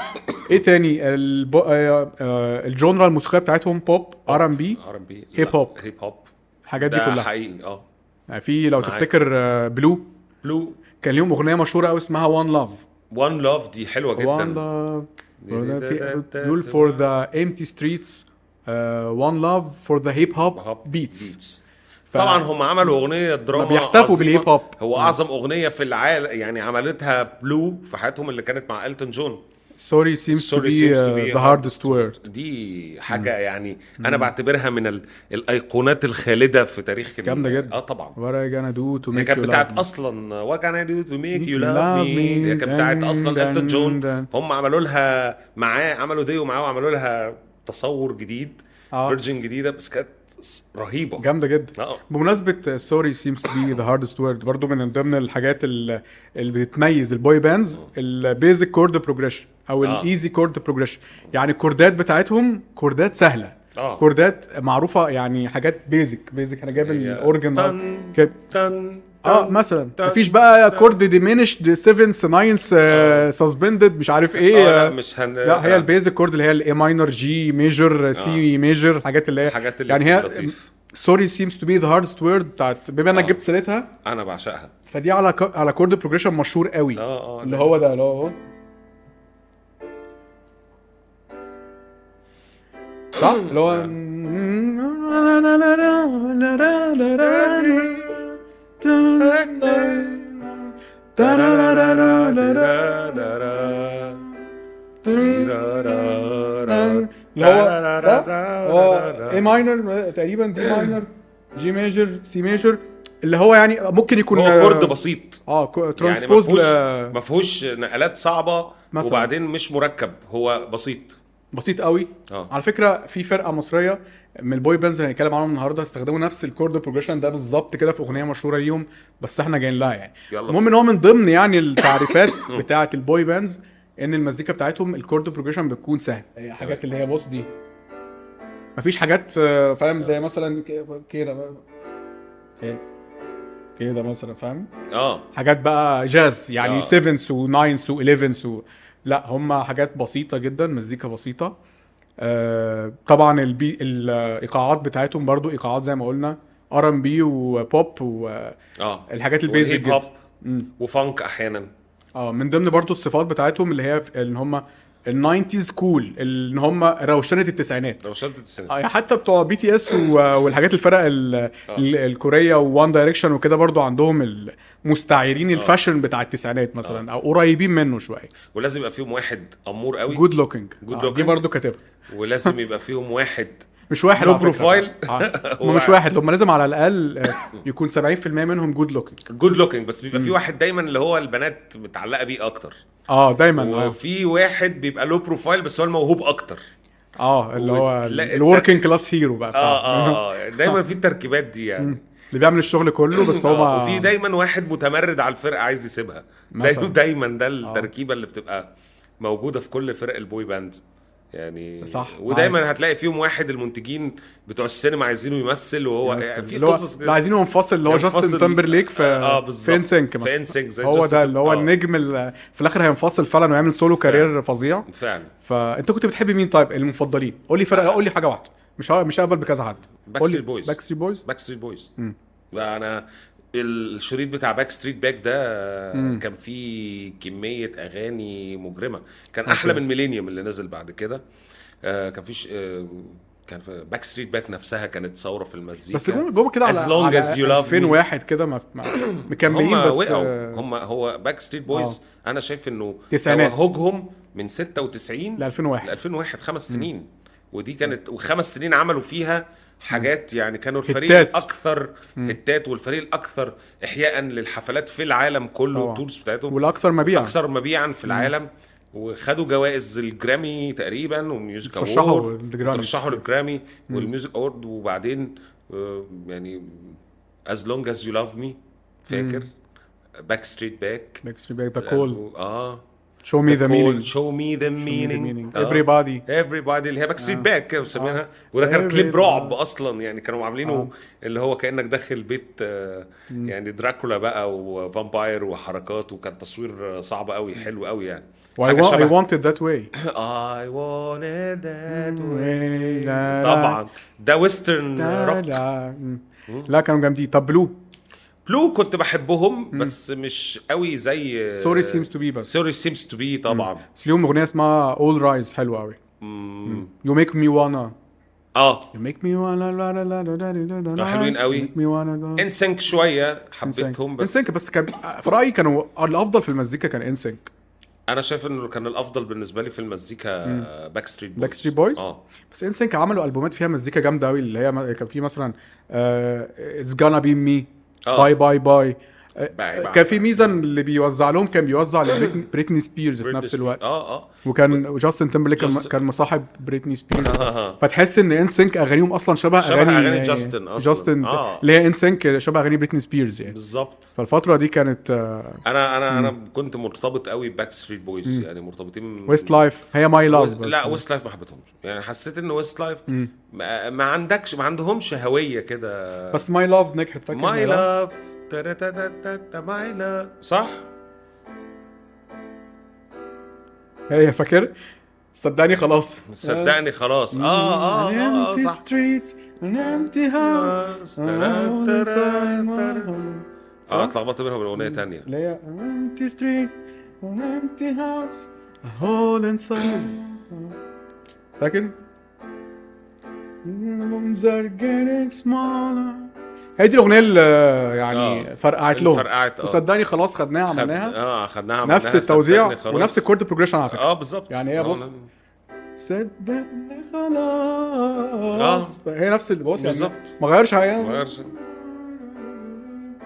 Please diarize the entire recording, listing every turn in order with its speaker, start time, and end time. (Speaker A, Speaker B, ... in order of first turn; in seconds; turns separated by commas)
Speaker A: 0.5-4.8, Speaker B: 4.3-6.3, Speaker A: 5.3-5.8, Speaker A: 6.7-7.3, Speaker B: 6.8-7.8, Speaker A: 8.3-10.1, Speaker B: 8.8-9.1, Speaker B: 10.4-10.8, Speaker A: 11.0-12.8, Speaker B: 13.1-14.6, Speaker A: 14.2-21.3, Speaker B: 15.4-17.1, Speaker B: 20.5-21.6, Speaker A: 22.1-22.9, Speaker B: 22.1-29.4, Speaker A: 23.5-25.2, Speaker A: 29.8-32.2, Speaker B: 30.3-38.1, Speaker A: 34.0-34.3, Speaker A: 37.2-39.9, Speaker B: 39.1-51.3, Speaker A: 41.3-44.3, Speaker A: 48.9-49.2, Speaker A: 51.2-68.3, Speaker B: 51.8-52.0, Speaker B: 59.8-60.1, Speaker B: 63.8-64.0, Speaker B: 66.7-71.0, Speaker A: 69.2-83.9, Speaker B: 72.9-73.3, Speaker B: 74.3-75.9, Speaker B: 78.2-78.5, Speaker B: 79.4-80.7, Speaker B: 83.1-83.4, Speaker B: 84.0-84.7, Speaker A: 84.9-88.4, Speaker B: 87.0-87.7, Speaker A: 93.2-103.6, Speaker B: 97.2-98.2, Speaker B: 99.2-100.2, Speaker B: 101.2-104.2, Speaker A: 105.0-115.0, Speaker B: 105.1-109.6, Speaker B: 110.6-110.9, Speaker B: 114.3-115.4, Speaker A: 115.5-117.2, Speaker B: 116.0-121.2, Speaker A: 118.9-119.3, Speaker A: 121.5-137.5, Speaker B: 130.3-130.6, Speaker B: 132.3-132.7, Speaker A: 138.8-141.6, Speaker A: 143.8-144.7, Speaker B: 144.9-145.3, Speaker A: 145.3-151.5, Speaker B: 146.6-147.0, Speaker A: 152.2-158.6, Speaker B: 158.8-160.2, Speaker A: 159.1-160.7, Speaker B: 160.8-161.7, Speaker A: 162.2-168.1, Speaker B: 168.0-168.7, Speaker A: 168.7-178.3, Speaker B: 175.5-175.8, Speaker B: 178.5-180.3, Speaker A: 180.1-181.8, Speaker B: 180.8-181.4, Speaker B: 182.1-186.0, Speaker A: 183.9-189.2, Speaker B: 189.3-192.8, Speaker A: 193.1-194.0, Speaker B: 193.5-196.6, Speaker A: 197.2-200.8, Speaker B: 197.6-198.8, Speaker B: 199.5-202.0, Speaker A: 201.8-204.1, Speaker B: 203.1-210.8, Speaker A: 206.5-207.0, Speaker A: 207.6-207.9, Speaker B: 211.3-217.2, Speaker A: 211.8-212.6, Speaker A: 216.0-224.9, Speaker B: 217.8-221.7, Speaker B: 224.0-224.3, Speaker B: 224.9-225.3, Speaker A: 225.4-231.2, Speaker B: 230.1-231.9, Speaker B: 232.5-241.2, Speaker A: 235.9-236.2, Speaker A: 239.5-239.8, Speaker B: 241.8-248.0, Speaker A: 245.9-250.6, Speaker B: 248.8-266.6, Speaker A: 251.7-252.0, Speaker A: 253.1-253.6, Speaker A: 255.4-256.0, Speaker A: 260.9-261.5, Speaker A: 265.7-267.4, Speaker B: 267.1-279.5, Speaker A: 268.1-268.3, Speaker A: 271.6-273.2, Speaker A: 279.1-279.5, Speaker B: 280.2-281.2, Speaker A: 281.2-282.2, Speaker B: 281.8-282.8, Speaker A: 283.2-284.1, Speaker B: 283.5-299.2, Speaker A: 284.8-286.2, Speaker A: 287.2-289.6, Speaker A: 290.6-290.9, Speaker A: 298.6-299.9, Speaker B: 300.0-305.6, Speaker A: 301.9-303.8, Speaker A: 305.0-307.8, Speaker B: 308.5-313.8, Speaker A: 311.5-312.5, Speaker A: 313.5-316.0, Speaker B: 316.2-316.9, Speaker A: 316.6-317.9, Speaker B: 318.6-318.9, Speaker A: 318.9-322.5, Speaker B: 321.0-321.7, Speaker B: 322.4-324.5, Speaker A: 323.6-327.5, Speaker B: 328.1-332.2, Speaker A: 331.4-343.8, Speaker B: 338.1-338.3, Speaker B: 339.5-340.6, Speaker B: 342.1-342.4, Speaker B: 343.2-344.8, Speaker A: 344.4-353.6, Speaker B: 345.5-346.0, Speaker B: 347.1-347.8, Speaker B: 349.6-351.6, Speaker B: 353.5-354.1, Speaker A: 354.1-356.4, Speaker B: 355.6-359.6, Speaker A: 359.3-361.0, Speaker B: 360.3-366.4, Speaker A: 366.3-367.9, Speaker B: 367.3-370.9, Speaker A: 374.1-374.7, Speaker A: 375.3-376.8, Speaker B: 376.3-378.8, Speaker A: 377.3-384.1, Speaker B: 379.9-383.1, Speaker B: 383.9-385.3, Speaker A: 384.8-390.8, Speaker A: 391.6-391.9, Speaker A: 393.6-401.1, Speaker B: 398.1-399.8, Speaker B: 400.6-403.3, Speaker A: 401.9-405.1, Speaker B: 403.9-405.3, Speaker A: 406.0-413.0, Speaker B: 408.6-409.0, Speaker B: 409.8-410.3, Speaker B: 411.0-411.5